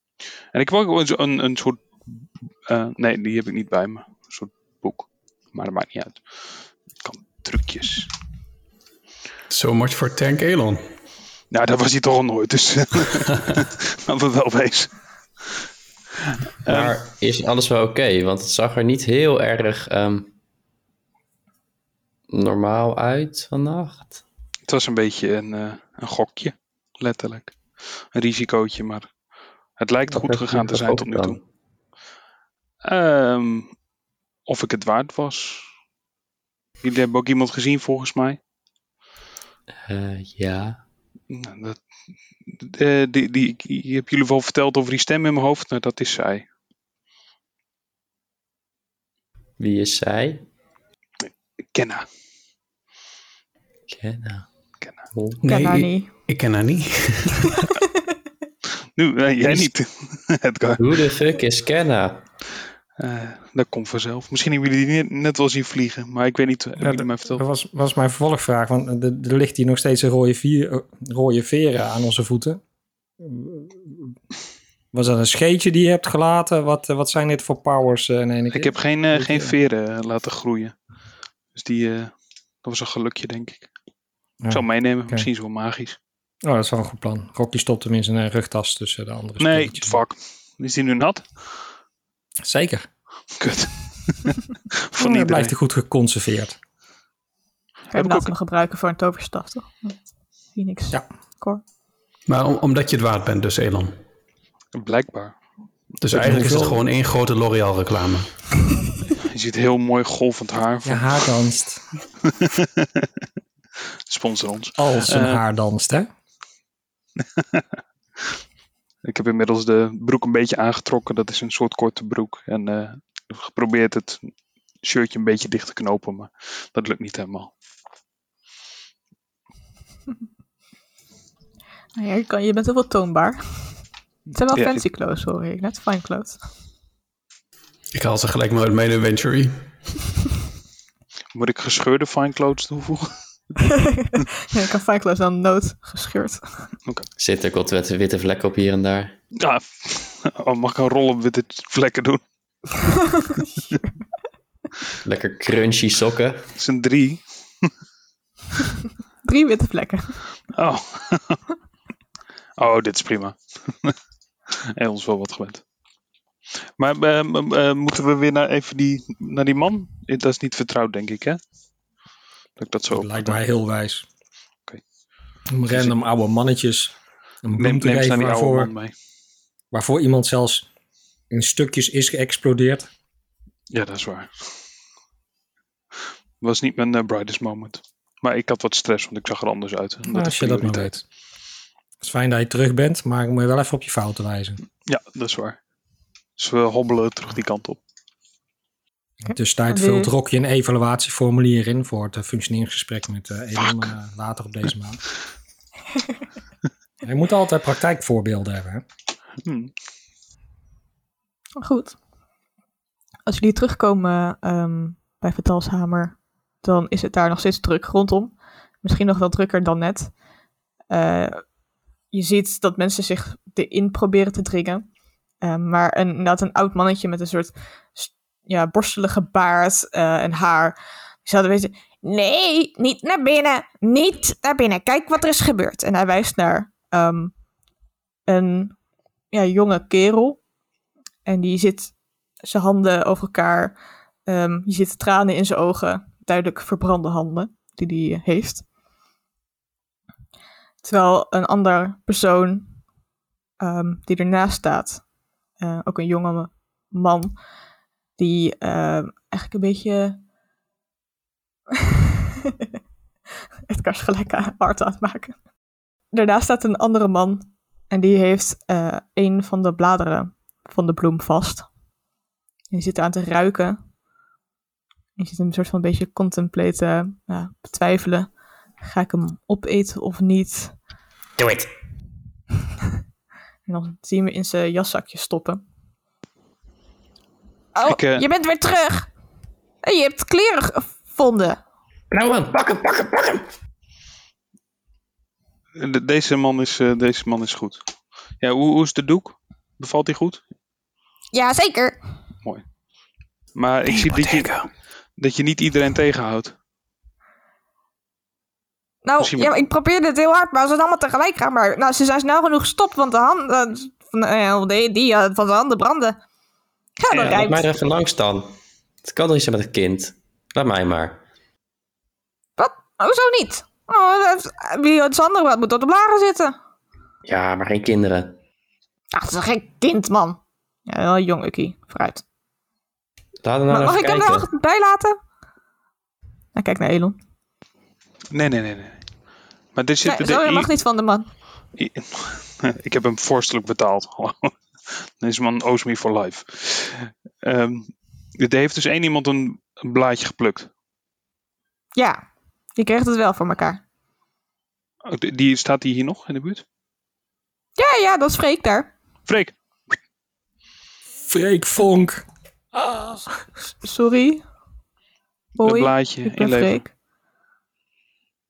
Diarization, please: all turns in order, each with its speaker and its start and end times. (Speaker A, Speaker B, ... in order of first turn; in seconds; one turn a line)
Speaker A: 0.5-8.1
Speaker B: 9.5-10.9
Speaker A: 11.5-15.7
Speaker A: 16.3-16.9
Speaker C: 16.7-20.3
Speaker C: 22.3-24.2
Speaker A: 24.7-29.1
Speaker A: 29.8-31.4
Speaker C: 30.1-31.4
Speaker A: 32.8-33.7
Speaker A: 34.5-35.7
Speaker A: 36.8-38.4
Speaker C: 39.9-40.8
Speaker A: 41.3-41.8
Speaker A: 42.5-46.5
Speaker C: 49.6-50.5
Speaker A: 51.3-52.1
Speaker C: 53.9-54.5
Speaker C: 55.1-55.4
Speaker B: 55.4-57.6
Speaker D: 55.5-56.1
Speaker A: 59.0-60.9
Speaker C: 60.8-62.2
Speaker A: 63.0-67.4
Speaker E: 66.8-72.6
Speaker E: 73.2-74.2
Speaker E: 74.9-79.5
Speaker A: 78.5-80.8
Speaker A: 81.5-82.1
Speaker A: 82.6-83.7
Speaker E: 84.4-85.3
Speaker A: 84.5-86.0
Speaker E: 86.4-90.0
Speaker A: 89.4-91.3
Speaker E: 92.4-92.9
Speaker A: 93.4-94.4
Speaker A: 94.9-95.5
Speaker E: 95.0-96.6
Speaker D: 97.9-101.6
Speaker A: 97.9-98.3
Speaker B: 102.3-104.0
Speaker A: 104.7-105.4
Speaker B: 106.0-108.5
Speaker E: 106.1-106.8
Speaker A: 109.2-111.3
Speaker E: 110.8-111.9
Speaker A: 112.3-113.1
Speaker A: 114.1-115.4
Speaker E: 114.8-116.1
Speaker A: 117.4-117.6
Speaker A: 119.0-124.3
Speaker A: 124.8-127.5
Speaker D: 132.0-133.8
Speaker D: 134.3-136.4
Speaker A: 134.5-134.8
Speaker B: 137.9-139.9
Speaker A: 141.3-143.2
Speaker D: 143.9-146.7
Speaker C: 147.2-149.1
Speaker A: 149.4-152.2
Speaker D: 153.2-153.8
Speaker C: 155.0-156.5
Speaker A: 156.6-157.7
Speaker D: 159.2-160.2
Speaker A: 160.5-161.4
Speaker A: 162.6-164.0
Speaker A: 164.5-165.6
Speaker A: 166.8-171.4
Speaker A: 172.6-173.4
Speaker E: 172.9-174.1
Speaker E: 175.5-178.7
Speaker A: 177.6-178.9
Speaker E: 179.7-180.7
Speaker E: 181.3-182.9
Speaker A: 183.7-184.5
Speaker A: 186.4-191.0
Speaker E: 190.1-191.0
Speaker E: 192.0-194.6
Speaker A: 194.9-195.6
Speaker A: 196.4-197.8
Speaker E: 199.2-205.0
Speaker D: 199.3-200.1
Speaker E: 207.0-208.8
Speaker A: 209.4-209.7
Speaker D: 211.6-212.0
Speaker D: 213.3-220.2
Speaker D: 220.9-221.5
Speaker D: 222.1-224.9
Speaker D: 225.4-237.3
Speaker D: 238.3-238.8
Speaker D: 239.3-240.4
Speaker D: 241.2-248.7
Speaker D: 250.8-252.8
Speaker D: 253.6-255.1
Speaker D: 255.6-257.4
Speaker D: 258.2-260.2
Speaker D: 263.7-265.4
Speaker D: 266.1-271.7
Speaker D: 272.7-273.8
Speaker D: 275.2-280.8
Speaker D: 283.7-285.6
Speaker D: 287.8-289.1
Speaker A: 287.9-288.2
Speaker D: 289.8-291.6
Speaker C: 292.1-293.5
Speaker A: 295.8-297.8
Speaker A: 298.4-300.4
Speaker D: 301.3-302.0
Speaker A: 303.6-306.6
Speaker B: 303.9-304.7
Speaker D: 309.0-316.2
Speaker A: 309.2-309.6
Speaker D: 317.0-317.7
Speaker C: 317.1-321.2
Speaker A: 317.2-317.4
Speaker D: 322.6-326.6
Speaker C: 327.2-328.4
Speaker D: 329.1-332.2
Speaker C: 333.4-334.5
Speaker D: 333.7-335.2
Speaker D: 336.6-337.2
Speaker A: 338.3-339.0
Speaker A: 339.8-340.7
Speaker D: 340.1-341.3
Speaker A: 341.8-350.7
Speaker D: 351.9-352.2
Speaker D: 352.8-353.8
Speaker A: 355.1-356.6
Speaker D: 357.8-358.9
Speaker A: 359.3-359.5
Speaker E: 361.2-363.4
Speaker D: 363.8-364.4
Speaker A: 365.6-366.9
Speaker D: 365.6-366.9